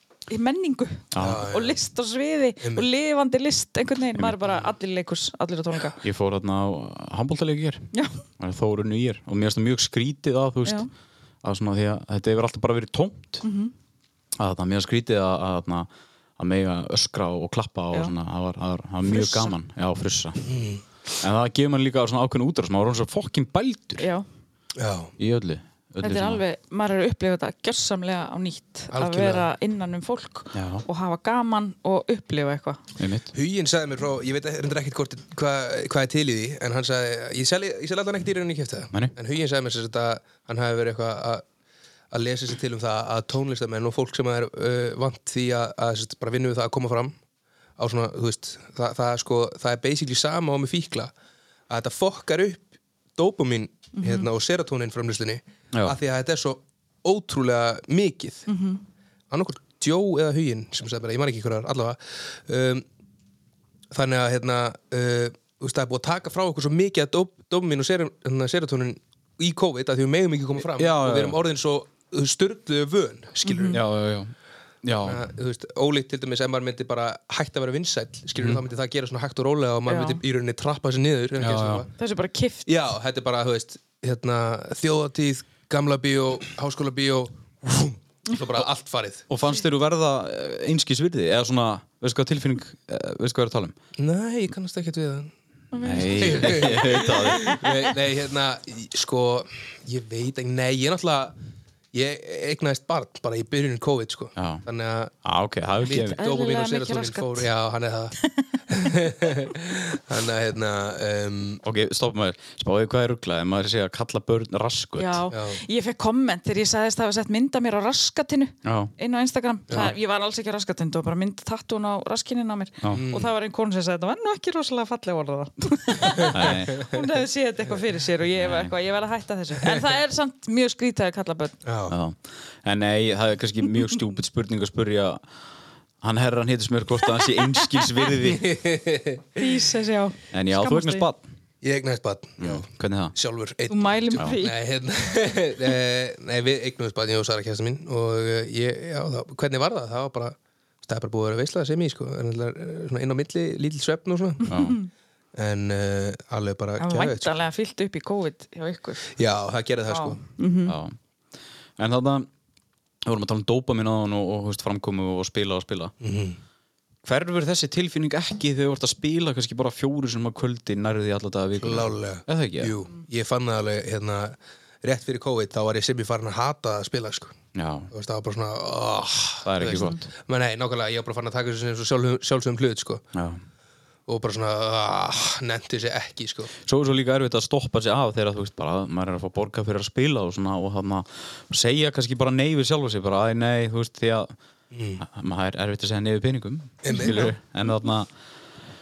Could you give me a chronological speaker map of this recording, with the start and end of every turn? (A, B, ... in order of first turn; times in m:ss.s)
0:00.3-0:06.0 A
0:01.1-0:01.5 B
0:01.2-0:01.8 C
0:02.6-0:02.9 C
0:04.2-0:04.6 B
0:06.0-0:07.8 B
0:07.9-0:08.2 A
0:08.4-0:10.8 B
0:11.4-0:13.4 B
0:13.4-0:13.7 A
0:14.4-0:15.9 B
0:16.4-0:20.5 B
0:19.1-0:19.6 A
0:20.4-0:20.8 C
0:21.2-0:24.1 B
0:24.0-0:24.2 A
0:24.8-0:25.1 C
0:25.2-0:26.4 B
0:26.0-0:32.8 A
0:28.9-0:29.5 C
0:30.5-0:30.8 B
0:33.0-0:33.3 B
0:33.3-0:41.4 C
0:42.1-0:47.2 C
0:47.8-0:51.1 C
0:51.7-0:58.5 C
0:54.0-0:54.3 A
0:55.7-0:56.0 B
0:58.5-0:58.8 A
0:59.3-1:02.8 C
1:03.9-1:13.8 C
1:10.6-1:11.4 B
1:13.4-1:13.8 A
1:13.7-1:14.3 B
1:14.8-1:15.2 B
1:15.0-1:21.9 C
1:18.4-1:18.6 B
1:19.9-1:20.2 A
1:21.4-1:21.9 B
1:22.0-1:22.7 A
1:22.7-1:29.2 C
1:29.3-1:33.8 B
1:34.0-1:35.3 C
1:35.7-1:37.6 A
1:35.8-1:37.6 B
1:36.2-1:41.4 C
1:41.9-1:45.1 C
1:44.4-1:44.6 B
1:45.2-1:46.2 B
1:45.8-1:48.2 C
1:45.9-1:47.5 A
1:48.2-1:49.0 A
1:48.7-1:51.6 C
1:51.6-1:55.2 B
1:55.0-2:11.6 A
1:55.3-1:55.6 C
1:58.6-1:58.9 B
2:02.9-2:03.3 C
2:06.2-2:06.9 C
2:06.3-2:06.9 B
2:08.4-2:08.7 B
2:11.6-2:12.0 C
2:11.9-2:15.2 B
2:16.0-2:18.6 B
2:17.1-2:18.1 A
2:18.3-2:19.4 C
2:19.4-2:21.1 A
2:20.3-2:21.2 B
2:21.6-2:34.5 C
2:22.4-2:23.2 B
2:23.7-2:24.6 A
2:34.4-2:34.9 A
2:34.4-2:34.8 B
2:35.4-2:37.3 C
2:36.8-2:39.1 A
2:39.2-2:40.2 C
2:39.9-2:40.8 A
2:40.7-2:40.9 B
2:41.8-2:42.3 B
2:43.0-2:45.9 B
2:46.0-2:46.4 C
2:47.0-2:52.7 B
2:51.6-2:57.4 C
2:57.6-2:57.9 B
2:57.9-3:03.0 C
2:59.4-3:00.0 B
3:03.1-3:03.4 B
3:04.1-3:06.5 C
3:06.7-3:14.3 B
3:14.7-3:15.0 C
3:15.0-3:18.1 B
3:16.8-3:17.3 C
3:16.9-3:17.2 A